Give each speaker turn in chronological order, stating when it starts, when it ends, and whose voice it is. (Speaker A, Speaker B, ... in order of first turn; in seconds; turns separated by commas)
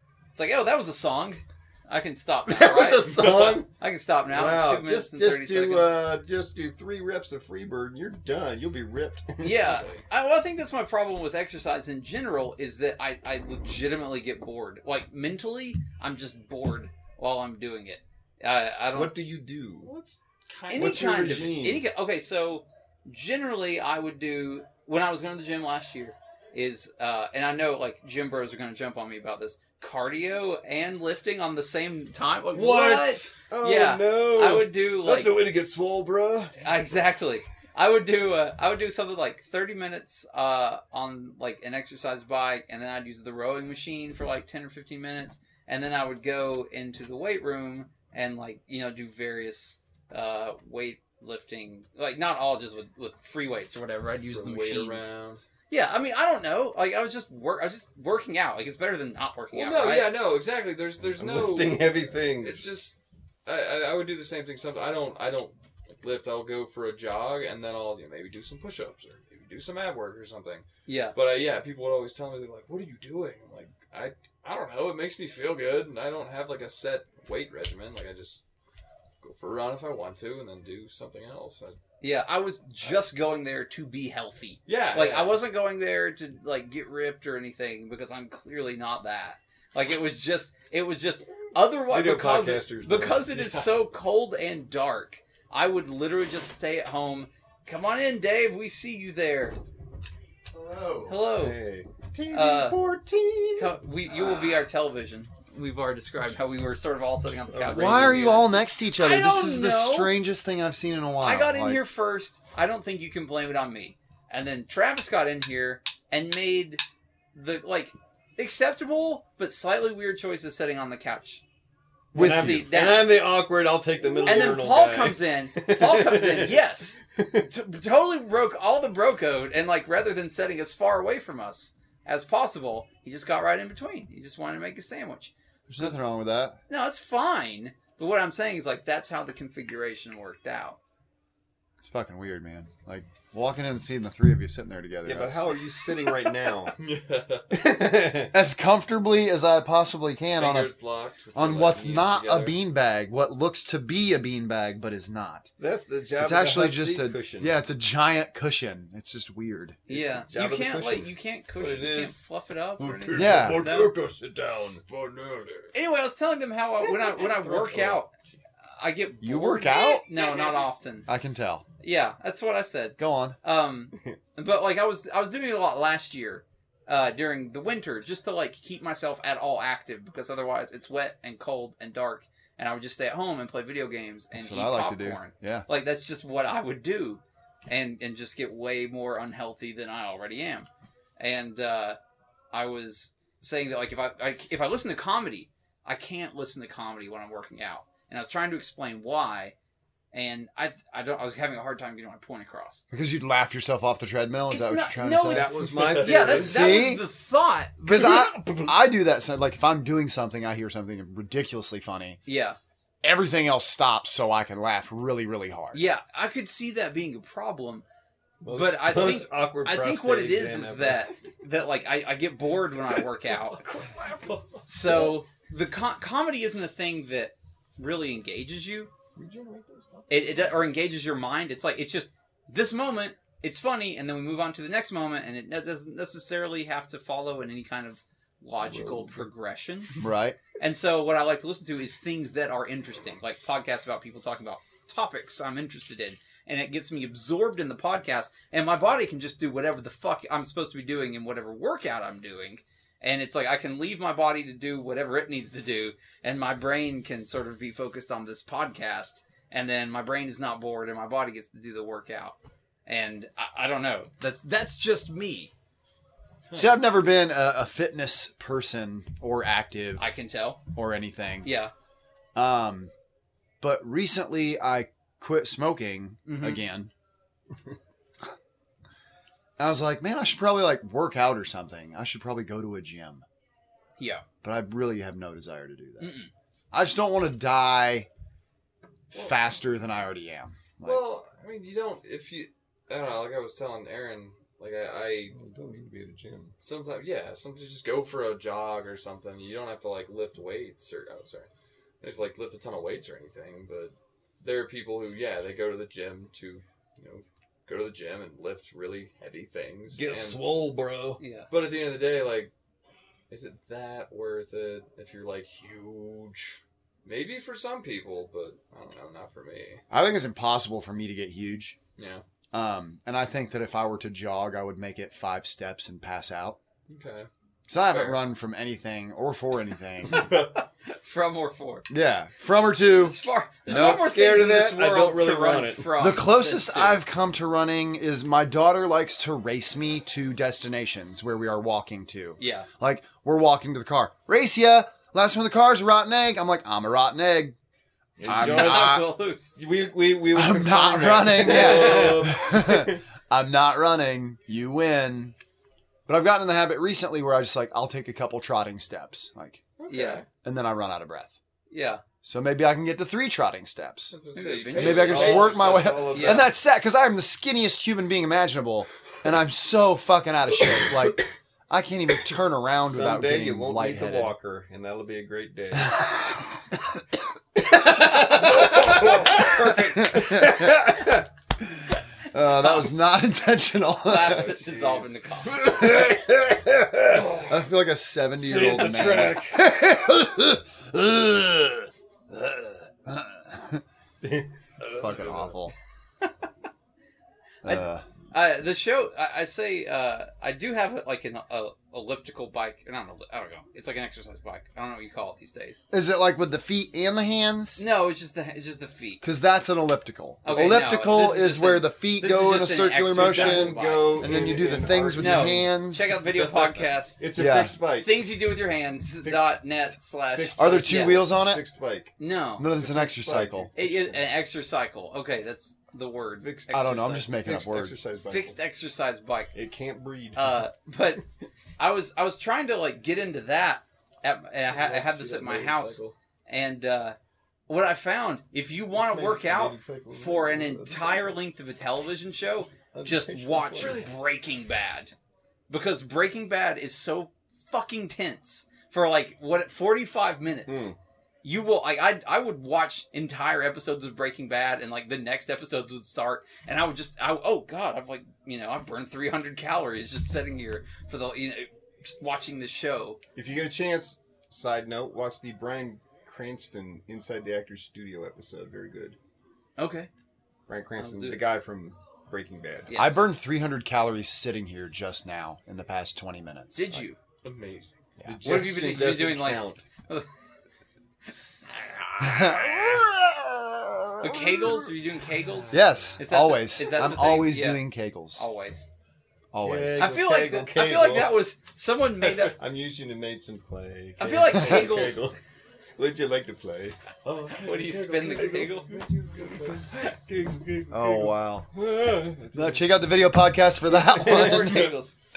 Speaker A: 0.3-6.0, Speaker B: 2.5-3.7, Speaker B: 4.3-9.7, Speaker A: 9.4-19.1, Speaker C: 9.5-10.0, Speaker B: 18.9-19.9, Speaker C: 19.8-21.2, Speaker A: 20.7-35.3, Speaker B: 20.7-21.8, Speaker C: 32.5-33.3, Speaker B: 33.5-36.5, Speaker C: 36.6-37.0, Speaker A: 36.6-55.1, Speaker C: 54.2-55.4, Speaker A: 55.7-60.2, Speaker C: 59.5-78.4, Speaker B: 61.1-62.6, Speaker A: 70.8-71.1, Speaker C: 79.2-81.8, Speaker A: 82.0-99.6, Speaker C: 84.7-85.4, Speaker B: 91.9-93.3, Speaker C: 93.3-93.8, Speaker D: 100.5-101.2, Speaker A: 101.1-101.6, Speaker B: 101.2-103.8, Speaker A: 102.3-102.8, Speaker A: 103.5-110.1, Speaker B: 107.5-108.5, Speaker D: 107.7-111.8, Speaker A: 111.2-116.8, Speaker A: 117.3-121.4, Speaker B: 122.1-126.5, Speaker D: 122.1-122.7, Speaker A: 122.2-123.1, Speaker A: 124.2-135.9, Speaker B: 127.2-127.5, Speaker D: 135.7-136.6, Speaker A: 136.7-140.8, Speaker D: 141.8-145.4, Speaker B: 145.0-146.7, Speaker C: 146.8-147.6, Speaker B: 147.5-148.3, Speaker D: 148.3-150.7, Speaker C: 150.3-152.5, Speaker D: 151.3-155.5, Speaker B: 155.6-157.5, Speaker D: 156.2-159.8, Speaker A: 159.9-163.9, Speaker B: 159.9-162.2, Speaker B: 162.8-164.8, Speaker D: 163.1-163.6, Speaker C: 164.8-165.7, Speaker A: 165.7-168.1, Speaker C: 166.8-168.4, Speaker A: 168.8-171.1, Speaker D: 169.2-170.1, Speaker D: 171.1-171.6, Speaker A: 171.8-190.7, Speaker D: 173.0-173.4, Speaker D: 184.3-185.7, Speaker A: 191.2-192.0, Speaker A: 192.5-199.5, Speaker A: 200.1-202.8, Speaker D: 202.9-205.5, Speaker A: 204.5-208.2, Speaker B: 205.2-206.8, Speaker C: 205.5-206.4, Speaker D: 206.4-207.0, Speaker D: 207.8-212.2, Speaker B: 207.9-208.8, Speaker A: 212.2-212.6, Speaker D: 213.0-215.8, Speaker A: 215.7-217.8, Speaker B: 218.4-221.1, Speaker A: 218.4-223.6, Speaker C: 223.4-225.1, Speaker B: 223.6-225.1, Speaker A: 224.7-228.9, Speaker B: 229.2-230.6, Speaker A: 230.1-239.9, Speaker B: 238.6-239.3, Speaker D: 240.0-240.4, Speaker A: 240.6-265.5, Speaker D: 266.5-270.1, Speaker A: 270.0-270.6, Speaker D: 270.7-271.5, Speaker A: 271.4-271.7, Speaker D: 272.3-272.9, Speaker D: 273.6-276.9, Speaker A: 276.2-276.6, Speaker D: 279.6-283.2, Speaker A: 284.0-284.2, Speaker D: 284.4-286.1, Speaker A: 286.0-286.3, Speaker D: 286.7-288.1, Speaker D: 289.1-291.0, Speaker C: 290.8-295.4, Speaker B: 295.3-296.5, Speaker C: 296.6-301.5, Speaker C: 302.0-310.4, Speaker B: 309.9-311.2, Speaker A: 311.2-311.5, Speaker C: 311.5-312.5, Speaker C: 313.3-319.8, Speaker D: 319.9-321.8, Speaker C: 322.0-322.2, Speaker D: 322.5-326.6, Speaker C: 326.9-327.3, Speaker D: 327.7-330.3, Speaker C: 327.9-328.2, Speaker C: 330.1-330.5, Speaker A: 330.8-331.9, Speaker D: 331.9-334.1, Speaker A: 332.9-337.0, Speaker B: 333.7-335.9, Speaker D: 336.0-347.5, Speaker A: 342.4-342.7, Speaker B: 348.2-349.0, Speaker D: 348.2-349.1, Speaker A: 348.2-349.6, Speaker B: 349.6-353.0, Speaker D: 350.3-355.3, Speaker A: 351.4-352.3, Speaker D: 356.1-359.6, Speaker C: 359.8-360.3, Speaker A: 359.9-360.2, Speaker D: 360.4-361.3, Speaker A: 361.7-362.0, Speaker D: 362.2-364.1, Speaker C: 364.1-366.2, Speaker A: 364.3-365.5, Speaker D: 364.7-374.3, Speaker B: 364.8-366.5, Speaker A: 366.1-366.5, Speaker B: 372.8-376.0, Speaker D: 375.8-376.4, Speaker B: 377.6-381.2, Speaker C: 378.7-379.4, Speaker A: 378.7-380.1, Speaker D: 379.1-381.0, Speaker D: 382.3-384.5, Speaker A: 382.5-383.0, Speaker A: 384.0-386.1, Speaker C: 384.1-385.1, Speaker D: 385.6-393.8, Speaker C: 387.1-387.6, Speaker C: 388.4-389.6, Speaker B: 388.6-389.3, Speaker B: 394.2-395.4, Speaker D: 394.8-395.7, Speaker C: 394.9-395.5, Speaker D: 397.6-398.1, Speaker A: 397.6-405.8, Speaker D: 405.9-407.9, Speaker A: 407.8-409.2, Speaker D: 409.2-416.1, Speaker A: 410.4-414.3, Speaker B: 413.1-415.7, Speaker A: 415.2-417.2, Speaker C: 416.2-416.9, Speaker B: 417.2-418.1, Speaker D: 417.3-417.8, Speaker A: 418.0-421.2, Speaker B: 419.2-419.6, Speaker B: 420.3-422.1, Speaker D: 420.6-421.6, Speaker A: 422.2-422.7, Speaker D: 422.6-423.7, Speaker B: 422.7-424.2, Speaker A: 423.8-427.2, Speaker B: 426.4-428.6, Speaker D: 426.7-428.0, Speaker A: 428.3-429.5, Speaker B: 429.5-430.7, Speaker A: 430.4-431.2, Speaker A: 431.8-437.2, Speaker C: 434.7-436.1, Speaker A: 437.7-445.1, Speaker B: 438.9-441.4, Speaker B: 442.9-444.1, Speaker C: 443.7-444.1, Speaker A: 445.7-450.9, Speaker B: 450.7-451.0, Speaker A: 451.4-463.2, Speaker B: 463.4-469.2, Speaker A: 469.8-470.1, Speaker B: 470.7-472.9, Speaker A: 471.0-471.4, Speaker A: 472.9-473.2, Speaker D: 472.9-477.0, Speaker A: 476.7-477.2, Speaker C: 477.4-478.0, Speaker B: 478.2-479.8, Speaker A: 478.4-480.3, Speaker A: 481.7-483.0, Speaker D: 482.2-484.9, Speaker A: 484.2-488.9, Speaker C: 485.6-486.2, Speaker D: 485.7-488.4, Speaker D: 489.5-490.1, Speaker B: 489.6-491.4, Speaker A: 490.0-492.6, Speaker B: 492.4-495.4, Speaker A: 494.2-495.2, Speaker B: 496.0-497.0, Speaker C: 497.2-499.9, Speaker A: 497.6-498.9, Speaker B: 498.2-503.1, Speaker D: 500.9-501.7, Speaker D: 502.5-504.9, Speaker A: 503.9-505.1, Speaker B: 504.1-504.9